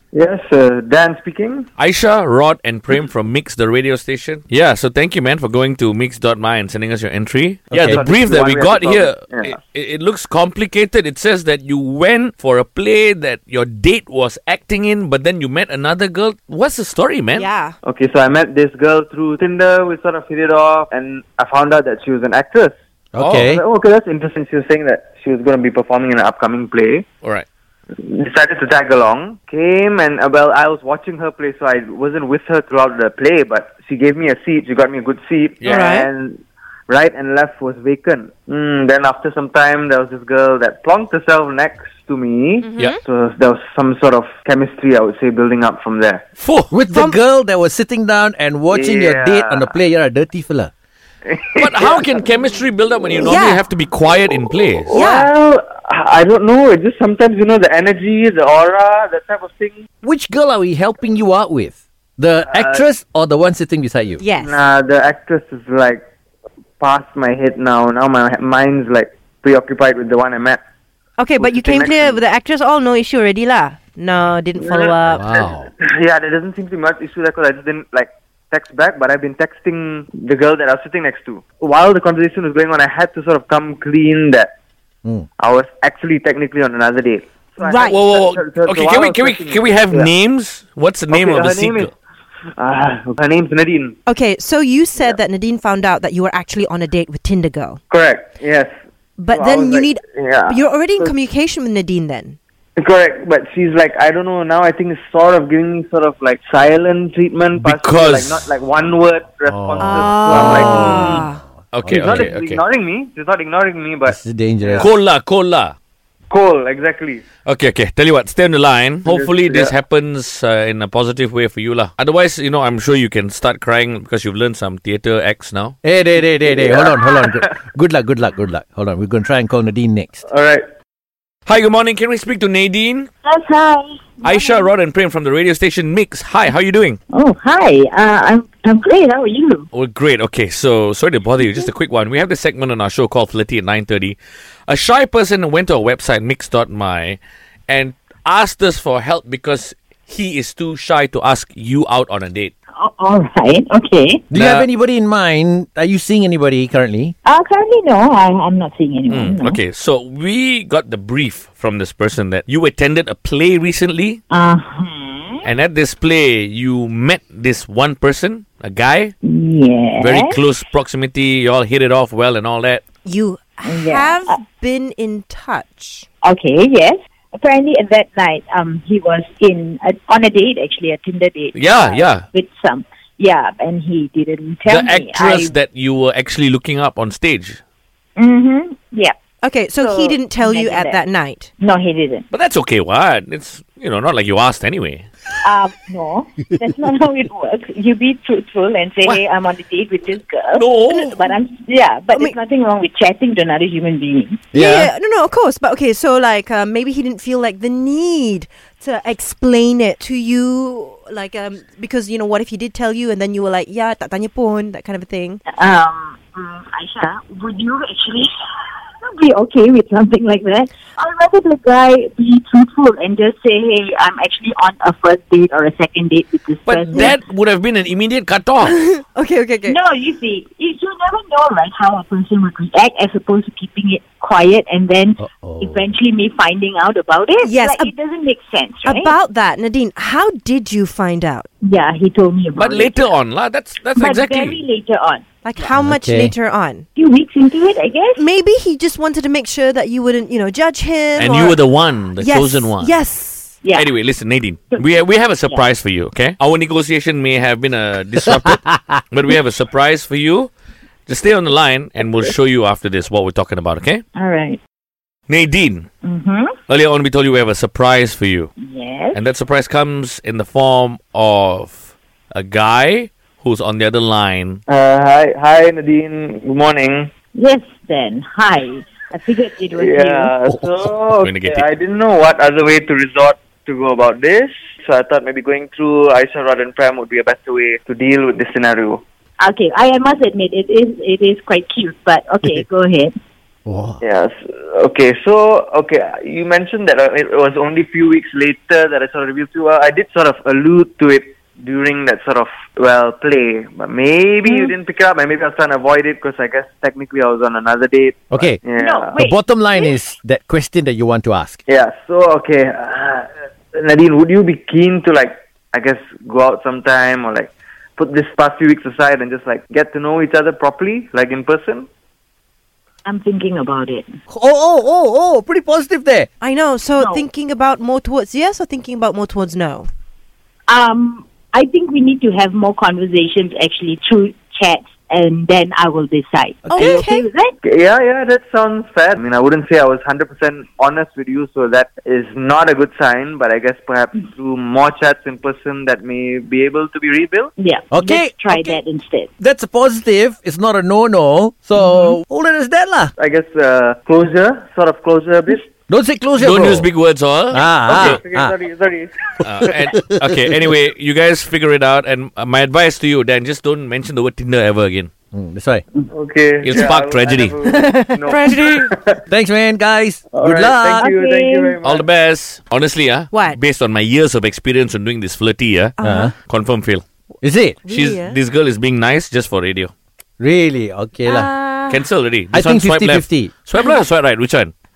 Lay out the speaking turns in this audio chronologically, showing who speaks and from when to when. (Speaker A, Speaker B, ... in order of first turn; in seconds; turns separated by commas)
Speaker A: 0.1-1.7, Speaker B: 1.8-17.5, Speaker C: 7.7-8.0, Speaker A: 7.9-9.6, Speaker D: 17.3-17.8, Speaker A: 17.8-22.7, Speaker C: 23.1-23.6, Speaker B: 23.2-23.5, Speaker A: 23.3-27.0, Speaker A: 28.0-46.2, Speaker D: 35.6-36.1, Speaker D: 42.6-43.0, Speaker B: 46.4-46.7, Speaker C: 46.7-50.7, Speaker D: 46.9-47.2, Speaker A: 48.7-49.6, Speaker A: 51.2-52.2, Speaker B: 51.6-55.0, Speaker D: 53.2-53.6, Speaker A: 54.7-59.8, Speaker D: 54.9-55.3, Speaker C: 60.0-64.2, Speaker A: 62.5-62.8, Speaker D: 64.2-64.6, Speaker A: 64.4-66.0, Speaker A: 66.8-70.6, Speaker D: 71.2-75.2, Speaker A: 71.4-72.2, Speaker A: 74.6-84.5, Speaker C: 75.1-75.7, Speaker A: 85.4-90.1, Speaker D: 87.6-88.0, Speaker B: 87.8-91.9, Speaker A: 91.1-91.9, Speaker A: 92.6-94.0, Speaker D: 94.0-97.8, Speaker A: 97.9-98.7, Speaker D: 99.2-102.4, Speaker A: 99.3-101.1, Speaker A: 102.8-111.2, Speaker B: 107.5-108.5, Speaker C: 109.5-112.3, Speaker D: 109.8-111.4, Speaker B: 111.7-112.6, Speaker A: 112.0-114.9, Speaker C: 114.0-114.9, Speaker B: 114.8-115.8, Speaker A: 116.3-117.2, Speaker B: 117.4-125.7, Speaker A: 119.0-119.7, Speaker C: 125.8-130.2, Speaker A: 126.4-127.4, Speaker A: 130.3-130.6, Speaker B: 131.4-133.1, Speaker E: 133.2-134.7, Speaker B: 134.2-137.0, Speaker E: 137.1-139.7, Speaker B: 139.7-152.5, Speaker E: 152.8-154.2, Speaker C: 154.3-157.1, Speaker B: 154.3-154.7, Speaker E: 157.2-159.6, Speaker B: 159.1-164.2, Speaker E: 164.3-165.4, Speaker B: 165.4-169.1, Speaker E: 169.2-170.4, Speaker B: 170.0-172.8, Speaker D: 173.1-176.1, Speaker E: 173.6-174.4, Speaker E: 176.2-185.5, Speaker B: 181.5-182.2, Speaker B: 184.7-187.6, Speaker E: 188.2-189.2, Speaker D: 189.4-191.5, Speaker E: 189.8-191.0, Speaker E: 191.6-192.3, Speaker B: 192.3-195.1, Speaker E: 195.4-204.5, Speaker B: 200.5-201.1, Speaker D: 200.9-201.2, Speaker D: 202.1-202.4, Speaker C: 204.5-204.9, Speaker D: 204.5-215.4, Speaker E: 215.5-218.3, Speaker E: 219.0-227.2, Speaker B: 226.7-228.8, Speaker D: 228.6-229.8, Speaker E: 229.7-239.1, Speaker C: 235.2-235.9, Speaker D: 237.4-237.9, Speaker D: 238.8-241.5, Speaker E: 241.6-243.1, Speaker B: 242.6-244.6, Speaker E: 244.0-245.2, Speaker D: 245.4-246.8, Speaker C: 245.7-246.3, Speaker E: 246.9-248.2, Speaker D: 248.2-253.6, Speaker B: 251.2-252.9, Speaker E: 253.6-253.9, Speaker B: 253.8-260.5, Speaker C: 258.6-259.0, Speaker B: 261.1-264.0, Speaker E: 262.0-262.3, Speaker E: 264.1-264.6, Speaker B: 265.3-265.9, Speaker E: 266.0-266.5, Speaker B: 266.7-268.5, Speaker E: 268.6-269.2, Speaker B: 269.1-274.6, Speaker A: 274.7-277.1, Speaker E: 277.3-280.3, Speaker A: 279.7-289.0, Speaker B: 281.2-281.7, Speaker E: 289.4-293.1, Speaker C: 293.6-294.0, Speaker A: 294.0-309.2, Speaker C: 308.3-308.6, Speaker E: 308.8-309.9, Speaker C: 309.2-311.6, Speaker A: 311.6-321.9, Speaker E: 323.0-324.1, Speaker C: 324.3-326.3, Speaker D: 326.4-329.9, Speaker E: 327.0-327.3, Speaker E: 330.7-337.5, Speaker C: 336.6-337.1, Speaker D: 336.7-337.2, Speaker A: 337.6-347.5, Speaker E: 347.6-349.3, Speaker C: 347.9-348.8, Speaker C: 349.4-353.1, Speaker E: 351.8-352.1, Speaker A: 353.2-355.7, Speaker C: 355.9-356.9, Speaker B: 356.4-358.2, Speaker C: 357.5-358.5, Speaker A: 357.9-359.7, Speaker B: 359.4-365.1, Speaker C: 359.9-360.3, Speaker C: 365.3-365.8, Speaker A: 366.1-369.2, Speaker B: 366.6-367.6, Speaker D: 367.7-368.9, Speaker C: 369.3-371.1, Speaker A: 370.3-372.0, Speaker E: 371.0-371.8, Speaker B: 371.8-377.0, Speaker D: 373.3-373.6, Speaker D: 376.0-376.3, Speaker C: 376.0-376.3, Speaker C: 377.4-377.8, Speaker D: 377.8-378.4, Speaker B: 377.9-379.9, Speaker C: 380.4-381.5, Speaker D: 381.2-382.0, Speaker B: 381.9-384.7, Speaker C: 382.5-383.5